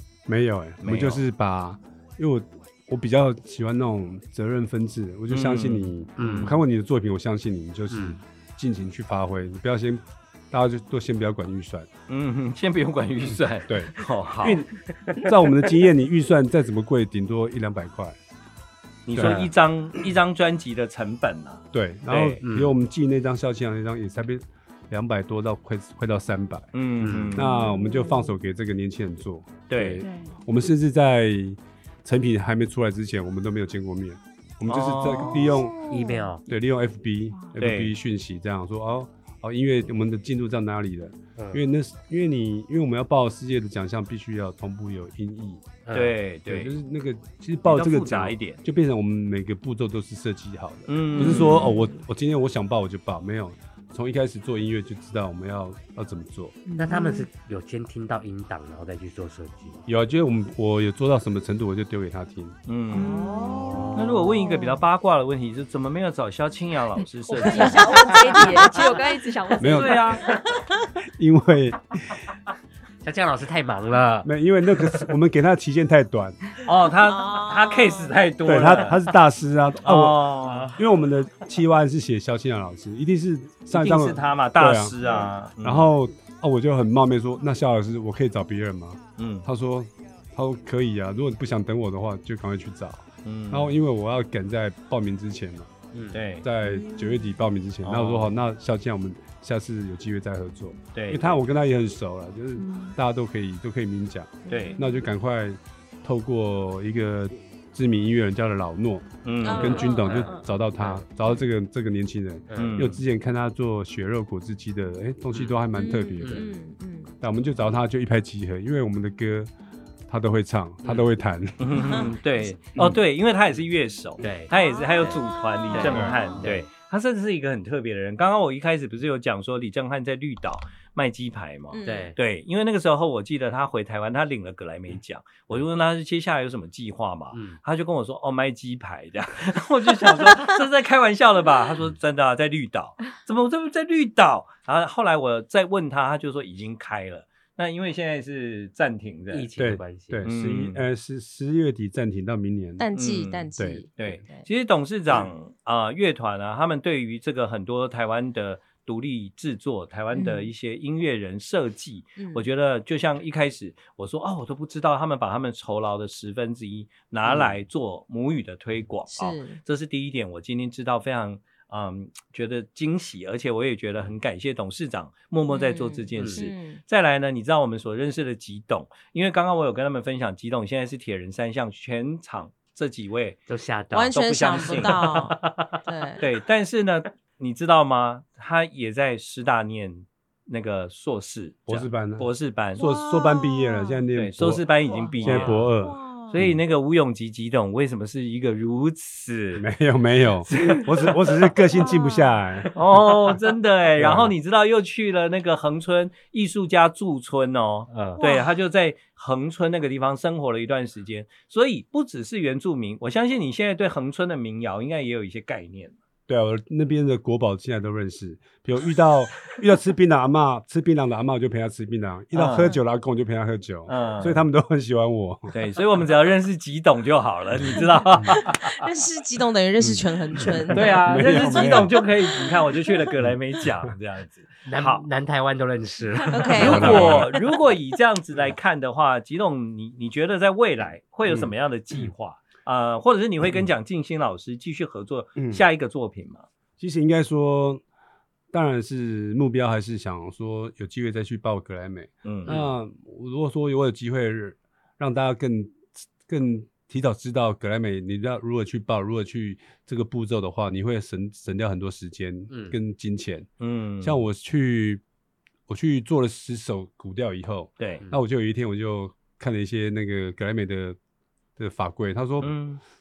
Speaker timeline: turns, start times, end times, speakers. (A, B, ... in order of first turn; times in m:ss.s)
0:00.3-0:11.9 A
0:00.8-0:01.2 B
0:05.3-0:06.6 B
0:06.2-0:06.6 C
0:07.9-0:08.2 C
0:12.1-0:14.6 B
0:13.7-0:18.2 A
0:19.1-0:22.4 B
0:19.1-0:19.5 A
0:19.2-0:19.5 C
0:21.7-0:26.7 A
0:22.4-0:22.7 C
0:26.7-0:27.6 B
0:27.0-0:27.4 C
0:27.3-0:35.9 A
0:27.5-0:28.4 D
0:29.7-0:30.0 B
0:30.0-0:30.3 E
0:34.7-0:35.5 B
0:35.1-0:36.3 D
0:35.9-0:36.4 C
0:36.5-0:45.7 A
0:37.6-0:37.9 B
0:45.9-0:46.2 C
0:45.9-0:46.7 B
0:46.5-0:56.6 A
0:47.7-0:48.6 B
0:50.9-0:51.7 B
0:51.2-0:52.0 D
0:56.7-0:57.3 D
0:56.7-0:59.8 C
0:59.9-1:02.6 A
1:02.7-1:03.3 B
1:02.9-1:04.8 D
1:03.0-1:03.8 E
1:03.5-1:04.2 C
1:03.9-1:08.0 B
1:07.3-1:10.3 E
1:09.6-1:10.2 A
1:11.0-1:12.2 A
1:13.0-1:15.1 C
1:14.2-1:16.4 A
1:16.6-1:19.0 B
1:17.0-1:18.2 D
1:18.4-1:25.0 A
1:19.8-1:20.7 B
1:20.5-1:20.8 C
1:23.7-1:25.9 B
1:25.6-1:35.7 A
1:29.2-1:29.5 B
1:33.2-1:33.8 B
1:35.9-1:36.2 C
1:36.1-1:36.5 B
1:36.4-1:56.5 A
1:36.6-1:37.4 D
1:37.8-1:38.3 B
1:41.0-1:41.4 B
1:42.6-1:42.9 E
1:44.5-1:44.8 B
1:44.5-1:45.0 D
1:49.2-1:49.9 B
1:49.4-1:50.5 D
1:49.6-1:51.1 C
1:52.5-1:52.9 C
1:52.6-1:53.0 B
1:55.7-1:57.1 D
1:56.2-1:56.5 C
1:57.2-1:59.5 A
2:00.1-2:02.1 A
2:01.6-2:29.5 B
2:04.2-2:05.2 C
2:04.5-2:06.4 D
2:05.7-2:06.7 C
2:05.8-2:06.2 A
2:11.7-2:12.2 D
2:11.8-2:12.2 C
2:17.3-2:17.6 C
2:29.3-2:30.2 C
2:29.6-2:32.9 A
2:30.2-2:30.8 B
2:32.8-2:34.5 D
2:33.0-3:03.4 B
2:33.6-2:34.1 A
2:40.1-2:40.5 D
2:42.2-2:42.4 D
2:47.2-2:47.5 C
2:49.1-2:49.6 D
2:55.5-2:56.8 D
2:56.2-2:56.5 C
3:03.5-3:05.1 C
3:03.9-3:06.2 D
3:04.1-3:12.8 B
3:11.7-3:14.6 A
3:12.8-3:14.0 D
3:14.2-3:15.7 B
3:15.2-3:16.6 A
3:15.2-3:15.7 C
3:15.8-3:16.4 D
3:16.3-3:19.6 B
3:19.6-3:22.8 A
3:20.5-3:20.9 B
3:21.8-3:22.4 D
3:22.7-3:36.0 B
3:24.0-3:24.3 A
3:27.9-3:28.2 C
3:28.2-3:28.6 D
3:36.3-3:45.5 A
3:42.3-3:42.8 B
3:43.9-3:44.5 B
3:45.5-3:48.8 B
3:47.6-3:48.4 A
3:48.4-3:51.8 D
3:49.8-3:51.9 A
3:50.7-3:55.1 B
3:54.7-3:57.3 C
3:56.3-3:57.3 D
3:56.5-4:06.5 B
3:56.6-3:57.3 A
4:05.4-4:05.6 A
4:06.8-4:07.8 A
4:08.5-4:23.5 A
4:12.2-4:12.6 B
4:12.5-4:12.7 C
4:22.5-4:22.8 C
4:23.6-4:24.2 B
4:24.0-4:25.0 A
4:25.7-4:31.0 A
4:31.6-4:32.5 A
4:32.4-4:32.8 B